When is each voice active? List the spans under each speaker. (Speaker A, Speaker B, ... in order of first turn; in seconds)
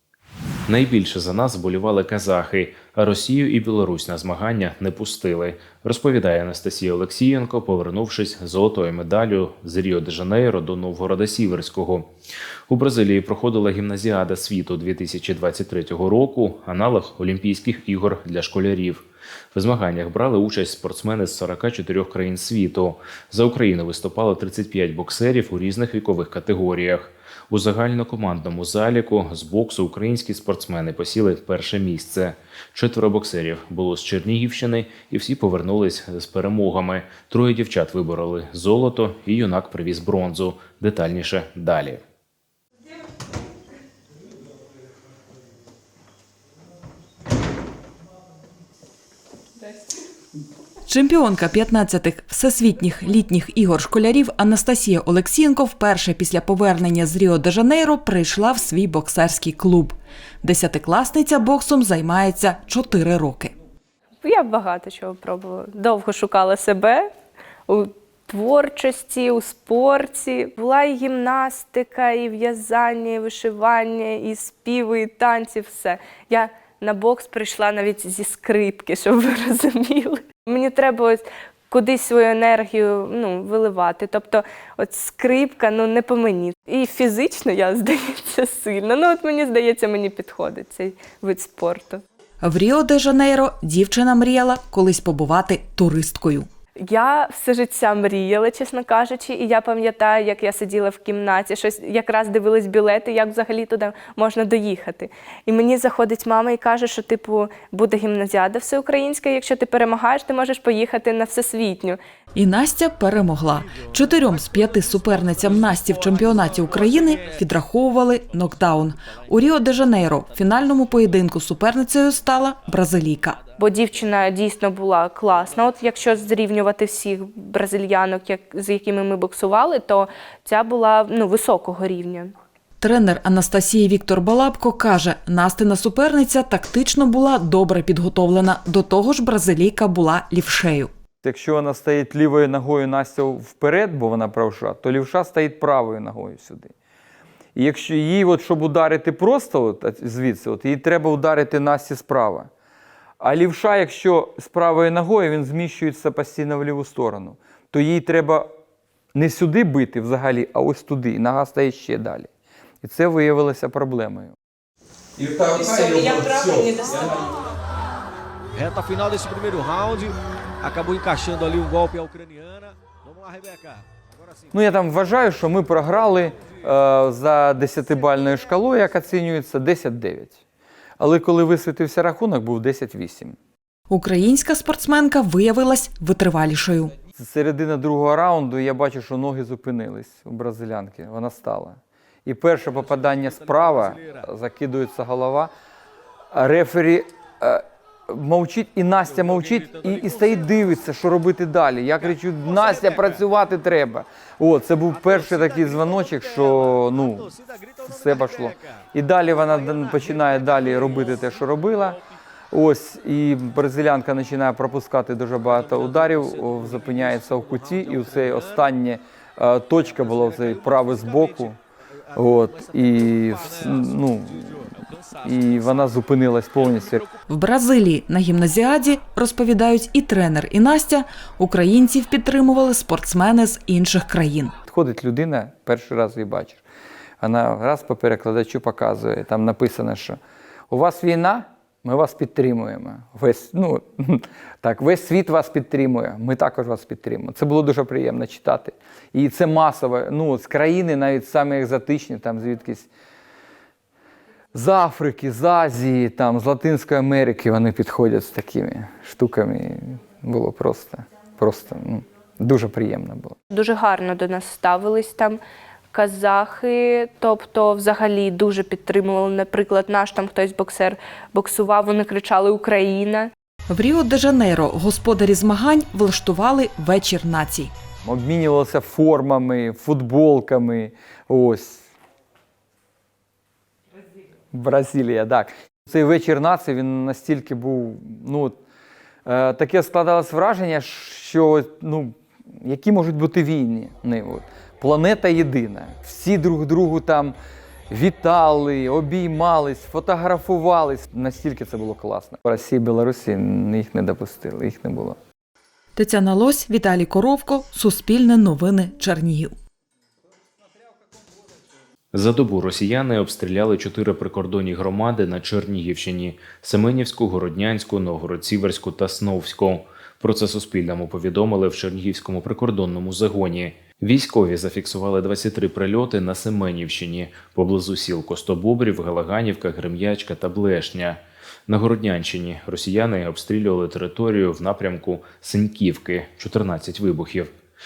Speaker A: 0.7-12.1, 12.7-42.0, 312.1-337.5
Speaker B: 50.9-63.5, 92.4-96.5, 112.3-123.4, 132.8-140.9, 183.9-186.9, 227.3-234.5, 273.7-277.7, 306.0-309.6
Speaker C: 64.2-67.1, 67.7-92.0, 96.8-112.0, 123.6-132.3, 165.6-166.9, 263.5-273.3
Speaker D: 141.2-146.7, 147.6-152.5, 153.2-158.5, 159.1-162.3, 162.8-164.3, 165.2-167.3, 174.5-180.4, 181.0-183.4, 187.1-195.5, 196.3-212.0, 212.5-221.6, 222.2-227.1, 234.6-236.6, 237.2-240.2, 240.7-252.9, 254.5-263.3, 278.0-281.8, 284.5-288.6, 289.3-297.4, 297.9-305.2
Speaker E: 169.1-170.0, 170.8-172.0, 217.6-218.1